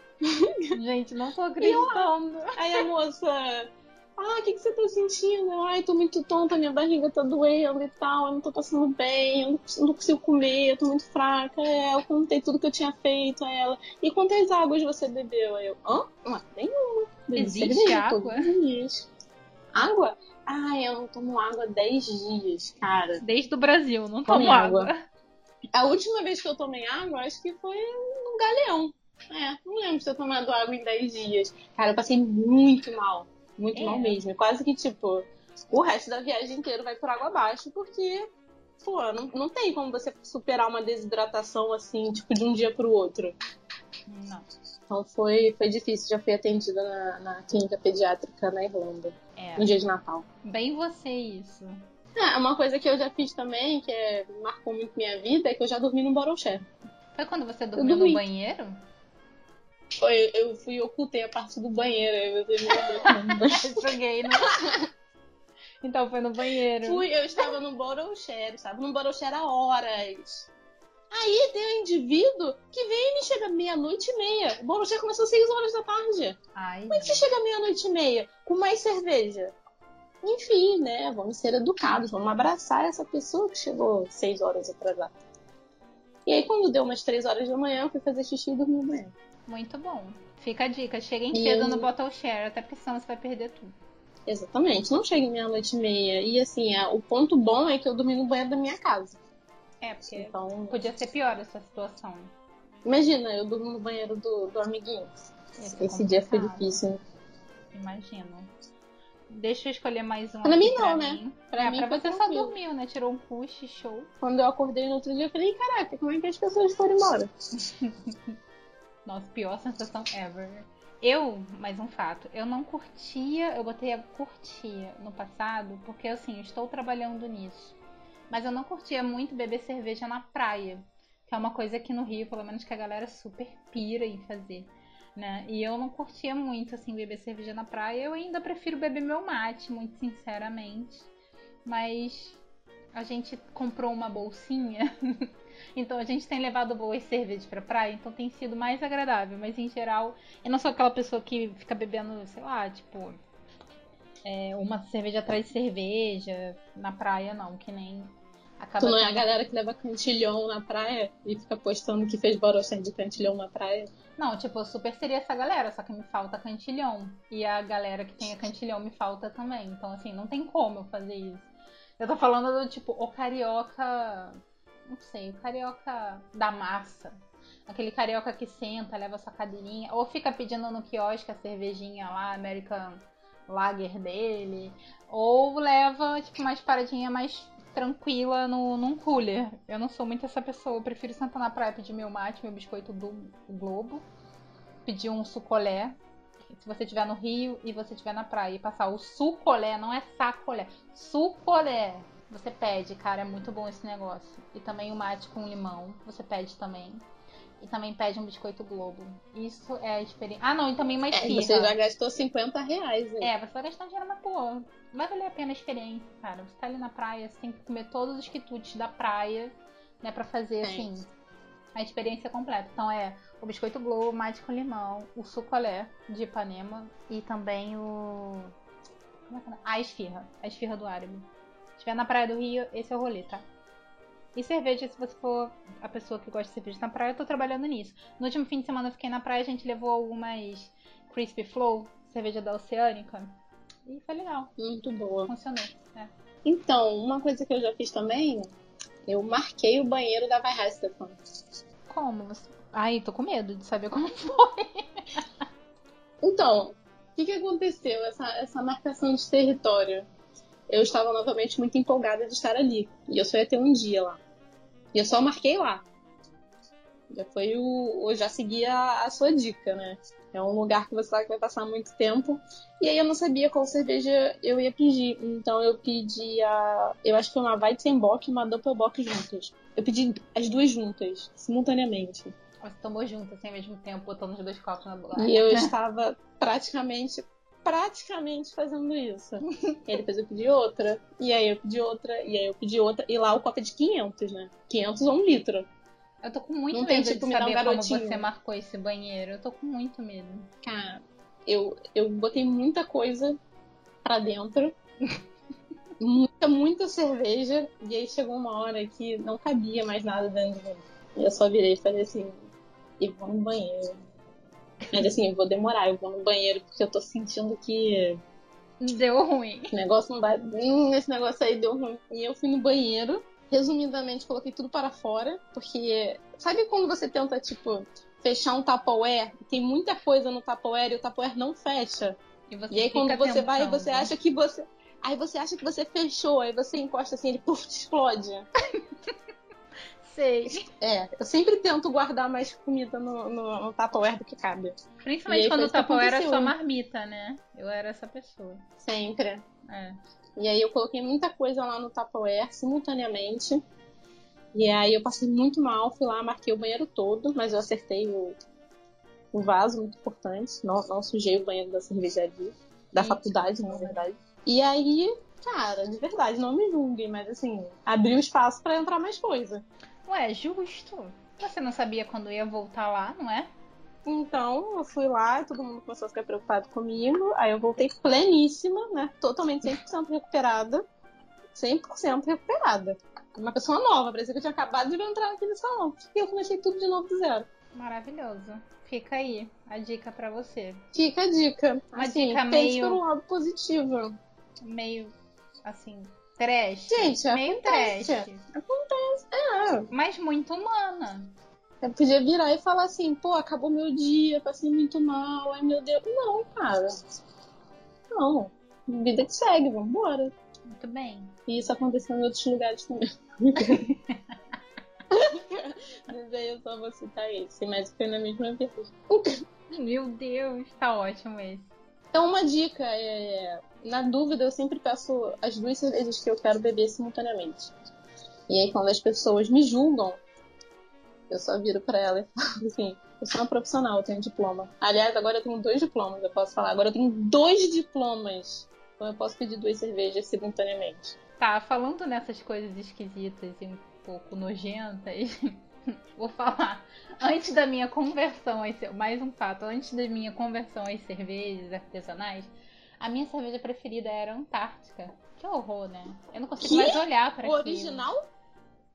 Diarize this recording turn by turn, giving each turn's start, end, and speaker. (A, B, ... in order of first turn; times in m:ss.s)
0:00.2-0:00.8 A
0:00.7-0:02.9 B
0:01.6-0:19.1 A
0:17.4-0:18.5 B
0:19.8-0:23.2 A
0:23.2-0:25.0 B
0:24.3-0:24.9 A
0:25.7-0:38.3 A
0:33.7-0:34.2 B
0:38.8-0:43.4 A
0:44.1-0:44.5 B
0:44.9-0:50.2 A
0:49.4-0:49.7 B
0:50.4-0:51.8 B
0:52.2-0:56.7 A
0:57.2-0:58.8 B
0:57.8-0:58.2 A
1:00.0-1:03.8 A
1:02.7-1:04.7 B
1:04.4-1:04.8 A
1:05.8-1:07.1 B
1:06.8-1:10.5 A
1:11.1-1:16.4 A
1:16.6-1:17.2 B
1:16.9-1:19.5 A
1:20.2-1:25.2 A
1:26.3-1:29.1 A
1:29.5-1:33.7 B
1:31.3-1:31.9 A
1:34.3-1:39.2 A
1:39.8-1:42.3 B
1:40.1-1:40.8 A
1:42.8-1:45.1 A
1:45.6-1:46.8 B
1:45.8-1:47.0 A
1:47.7-1:48.5 B
1:49.3-1:54.1 B
1:50.4-1:52.5 A
1:54.2-1:57.3 A
1:57.6-1:58.2 B
1:59.1-2:07.8 B
2:08.3-2:21.1 B
2:21.7-2:22.4 B
2:22.9-2:33.2 B
2:34.2-2:39.3 B
2:38.8-2:43.9 A
2:44.2-2:57.2 B
2:57.7-3:14.0 B
3:14.9-3:16.0 B
3:16.5-3:27.0 B
3:27.6-3:31.8 B
3:31.1-3:33.3 A
3:33.2-3:41.1 B
3:41.8-3:48.5 B
3:49.3-3:53.4 B
3:54.4-4:03.4 B
4:03.9-4:04.5 B
4:04.6-4:05.3 A
4:05.3-4:06.1 B
4:06.4-4:08.5 A
4:09.1-4:11.2 A
4:11.9-4:15.3 B
4:16.2-4:20.1 A
4:20.7-4:24.2 A
4:24.9-4:25.8 A
4:27.1-4:42.3 A
4:42.6-4:45.7 B
4:45.2-4:55.7 A
4:56.2-5:00.5 B
4:56.7-4:58.3 A
5:00.6-5:03.4 A
5:04.0-5:04.8 A
5:06.0-5:12.3 A
5:13.0-5:14.0 A
5:14.9-5:18.2 A
5:18.8-5:19.7 B
5:19.7-5:32.2 A
5:32.5-5:34.1 B
5:32.7-5:38.5 A
5:40.0-5:40.7 B
5:40.5-5:44.8 A
5:45.0-5:48.7 B
5:45.3-5:46.6 A
5:48.8-5:49.4 A
5:49.7-5:50.0 B
5:50.4-5:53.6 A
5:54.5-5:58.4 A
5:59.3-6:09.6 A
6:03.0-6:04.0 B
6:10.1-6:13.5 B
6:14.1-6:20.8 A
6:21.6-6:27.5 A
6:27.7-6:30.8 B
6:30.9-6:34.2 A
6:32.0-6:33.0 B
6:34.6-6:35.1 B
6:35.6-6:38.4 B
6:36.9-6:39.9 A
6:39.9-6:41.3 B
6:41.8-6:46.9 A
6:48.1-6:50.3 A
6:50.7-6:51.4 B
6:51.5-6:53.9 A
6:53.6-6:54.2 B
6:55.1-6:59.3 A
6:59.7-7:01.7 B
7:02.1-7:07.7 A
7:08.5-7:10.2 A
7:11.3-7:21.2 A
7:21.4-7:25.6 B
7:26.2-7:38.1 B
7:36.6-7:38.2 A